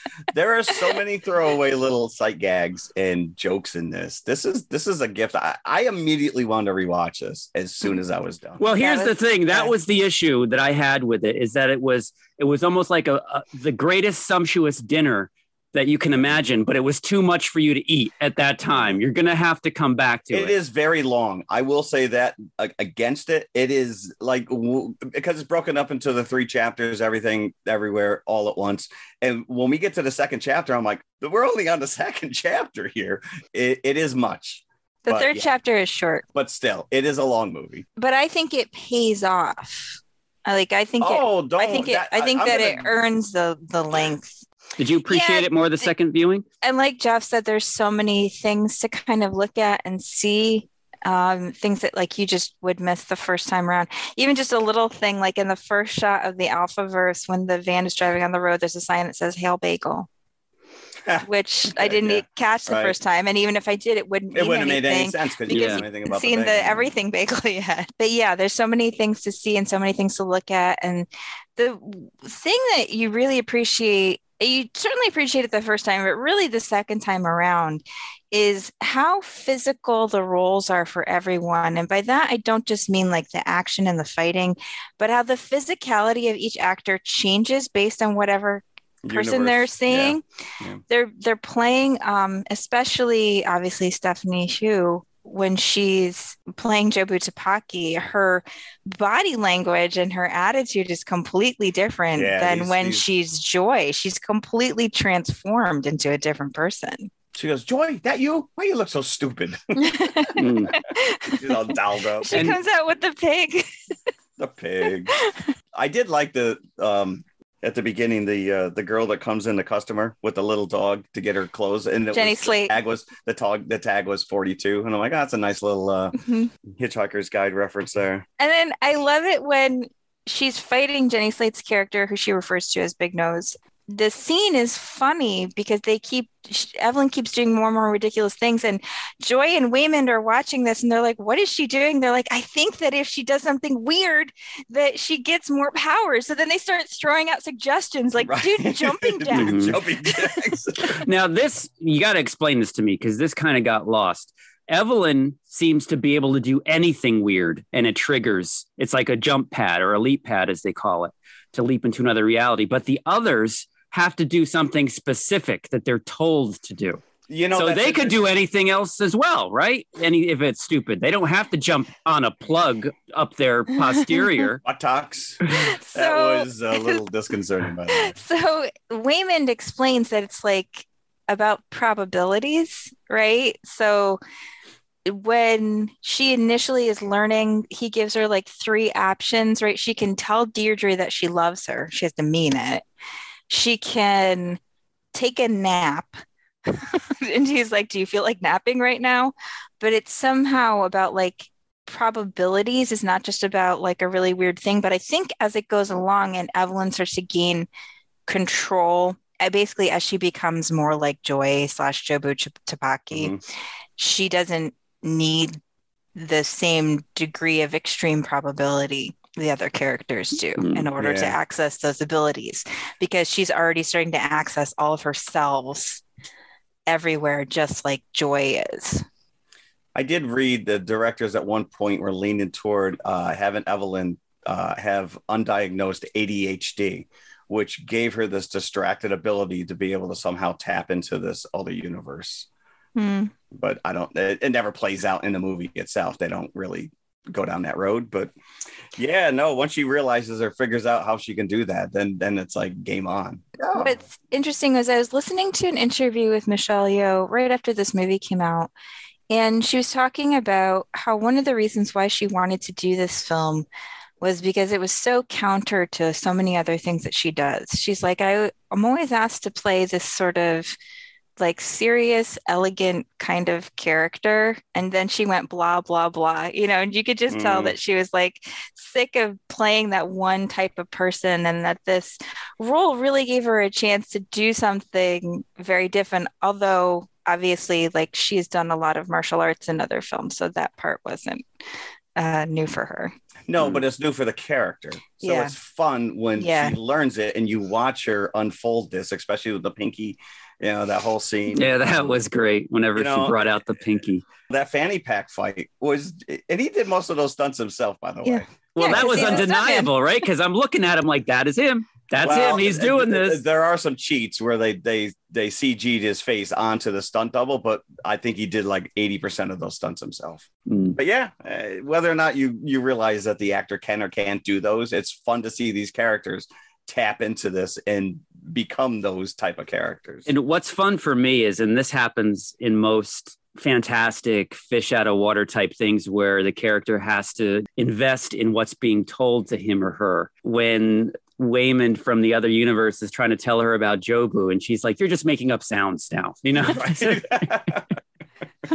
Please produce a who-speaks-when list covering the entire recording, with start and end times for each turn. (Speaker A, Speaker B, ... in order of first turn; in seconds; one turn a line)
Speaker A: 0.3-8.6
Speaker B: 8.6-20.5
Speaker C: 8.7-9.7
Speaker A: 18.7-19.0
Speaker A: 20.3-35.5
Speaker C: 35.0-36.2
Speaker A: 36.3-37.8
Speaker C: 38.0-44.5
Speaker A: 41.0-42.9
Speaker B: 44.8-46.4
Speaker C: 45.1-45.9
Speaker C: 46.6-60.1
Speaker A: 61.0-63.0
Speaker C: 61.2-90.2
Speaker A: 64.3-66.9
Speaker B: 65.5-65.8
Speaker A: 89.0-90.8
Speaker C: 90.9-107.1
Speaker A: 102.1-103.0
Speaker A: 107.3-110.7
Speaker C: 109.8-113.7
Speaker B: 110.4-110.7
Speaker A: 111.3-112.5
Speaker A: 114.4-115.1
Speaker C: 115.1-115.4
Speaker A: 115.7-128.2
Speaker C: 122.1-122.7
Speaker C: 126.2-126.5
Speaker C: 128.4-150.3
Speaker A: 148.2-151.0
Speaker B: 149.3-149.8
Speaker B: 150.9-167.0
Speaker A: 167.3-168.3
Speaker B: 167.5-174.6
Speaker A: 174.6-175.4
Speaker C: 175.5-177.0
Speaker A: 175.9-178.2
Speaker C: 177.9-184.2
Speaker C: 185.1-192.8
Speaker C: 193.5-194.6
Speaker C: 195.1-207.7
Speaker C: 208.3-213.4
Speaker A: 213.1-213.4
Speaker C: 214.0-215.6
Speaker C: 216.1-226.0
Speaker B: 220.6-220.8
Speaker A: 221.0-221.4
Speaker C: 226.9-229.0
Speaker A: 229.9-242.5
Speaker C: 242.9-243.3
Speaker A: 243.5-248.3
Speaker A: 248.9-253.9
Speaker C: 253.7-258.7
Speaker C: 259.3-263.6
Speaker C: 264.2-270.8
Speaker C: 271.4-291.4
Speaker A: 277.3-277.7
Speaker C: 292.1-293.1
Speaker A: 293.5-302.1
Speaker C: 295.2-295.5
Speaker C: 296.4-296.8
Speaker B: 301.5-304.3
Speaker A: 302.9-309.5
Speaker C: 308.2-309.9
Speaker B: 308.7-313.4
Speaker A: 312.2-330.3
Speaker B: 320.7-321.0
Speaker B: 330.3-347.5
Speaker A: 346.6-348.0